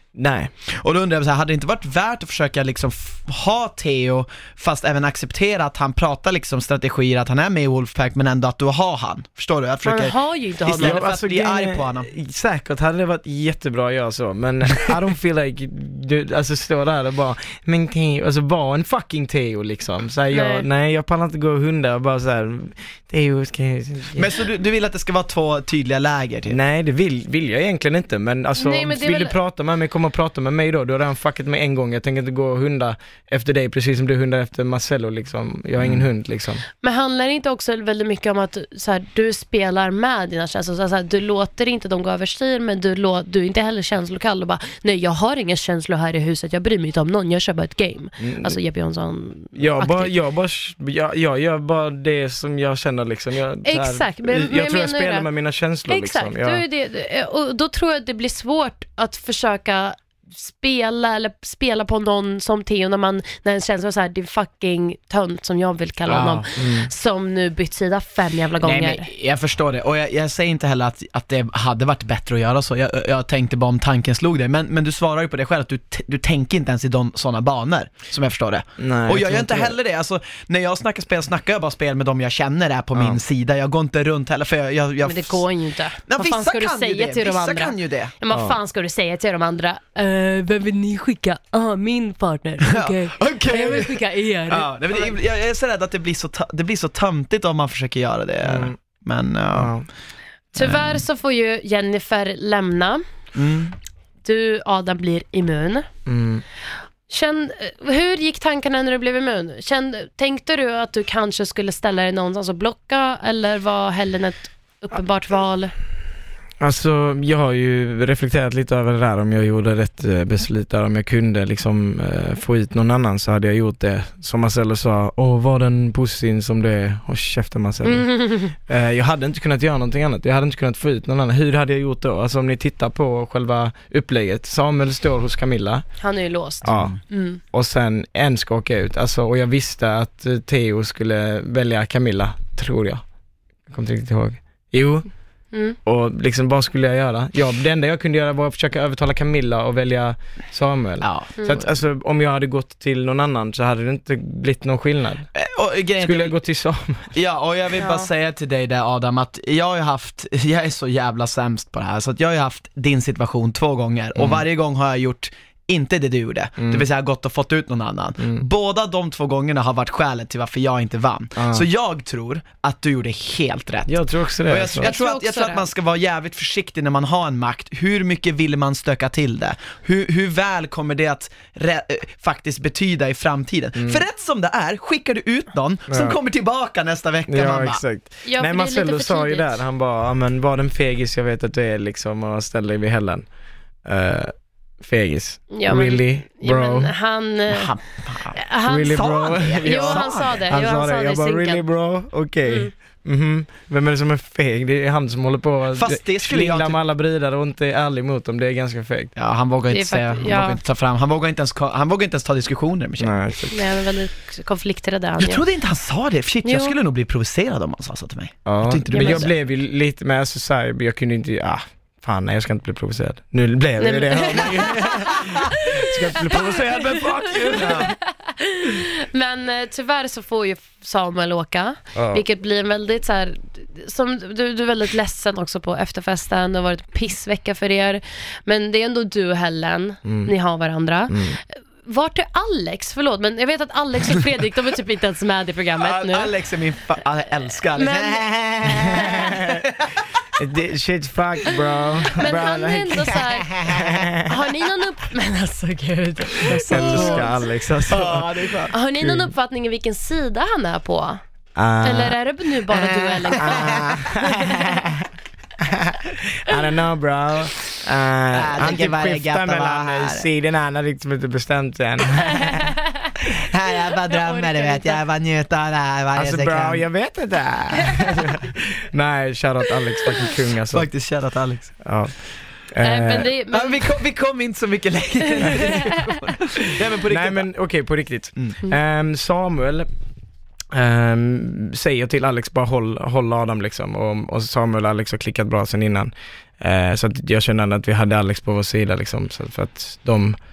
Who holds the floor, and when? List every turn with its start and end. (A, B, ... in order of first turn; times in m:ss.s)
0:00.1-0:00.5 A
0:00.8-0:12.1 B
0:09.8-0:11.0 C
0:10.8-0:24.3 A
0:20.3-0:20.7 C
0:24.2-0:26.6 B
0:26.5-0:36.6 A
0:28.6-0:29.3 C
0:35.8-0:36.0 B
0:36.8-0:50.1 C
0:48.2-0:48.6 A
0:49.6-0:56.6 A
0:53.6-0:55.3 C
0:55.9-1:09.1 C
1:06.1-1:06.4 B
1:06.5-1:06.9 A
1:08.6-1:25.4 B
1:18.8-1:19.8 A
1:23.0-1:23.2 A
1:25.0-1:35.1 C
1:26.0-1:28.1 B
1:28.3-1:28.6 A
1:32.7-1:34.0 B
1:34.5-1:39.9 B
1:38.4-1:38.8 A
1:39.5-1:39.9 A
1:40.5-1:43.0 C
1:40.6-1:41.0 B
1:43.3-1:43.7 B
1:44.2-1:45.9 C
1:46.0-1:46.4 A
1:47.1-1:55.7 C
1:56.6-2:15.9 A
2:07.8-2:08.5 C
2:16.0-2:17.4 C
2:16.6-2:23.0 A
2:23.7-2:25.1 A
2:25.8-2:35.3 A
2:31.0-2:31.3 B
2:31.4-2:31.6 C
2:35.4-2:36.4 B
2:36.0-2:37.1 A
2:37.1-3:07.8 B
2:37.8-2:38.1 C
2:44.2-2:44.4 A
2:46.6-2:46.9 A
2:48.2-2:48.4 A
2:51.4-2:51.7 A
2:53.9-2:54.9 A
2:54.7-2:55.6 C
3:03.8-3:04.0 A
3:05.9-3:06.2 A
3:07.3-3:13.3 A
3:08.2-3:09.5 C
3:13.8-3:16.9 A
3:15.5-3:17.7 C
3:17.5-3:20.4 B
3:18.4-3:19.1 C
3:18.6-3:29.1 A
3:19.6-3:21.6 C
3:22.4-3:22.7 C
3:25.7-3:26.8 B
3:29.2-3:33.2 B
3:29.7-3:30.6 C
3:33.0-3:33.6 A
3:33.5-3:35.4 C
3:35.2-3:39.3 B
3:36.4-3:36.7 C
3:38.4-3:47.9 A
3:38.9-3:39.3 C
3:43.8-3:45.2 C
3:47.6-3:47.9 B
3:48.3-4:06.3 C
3:52.0-3:52.2 A
4:00.0-4:00.3 A
4:01.1-4:01.4 A
4:05.8-4:10.0 B
4:07.8-4:08.3 C
4:09.0-4:09.6 A
4:10.4-4:14.2 A
4:12.2-4:13.5 C
4:13.5-4:14.0 B
4:14.3-4:17.4 C
4:16.4-4:18.3 A
4:16.5-4:17.3 B
4:17.9-4:18.7 B
4:18.7-4:21.2 C
4:19.0-4:19.3 A
4:21.6-4:22.2 A
4:21.8-4:23.6 C
4:22.7-4:24.0 B
4:23.5-4:24.6 A
4:25.7-4:32.7 A
4:28.3-4:30.2 B
4:33.5-4:36.9 B
4:34.1-4:35.0 C
4:36.1-4:41.0 A
4:40.7-4:41.8 B
4:41.8-4:43.3 A
4:42.8-4:43.8 C
4:43.5-4:47.7 B
4:47.1-4:49.9 A
4:50.7-5:00.4 A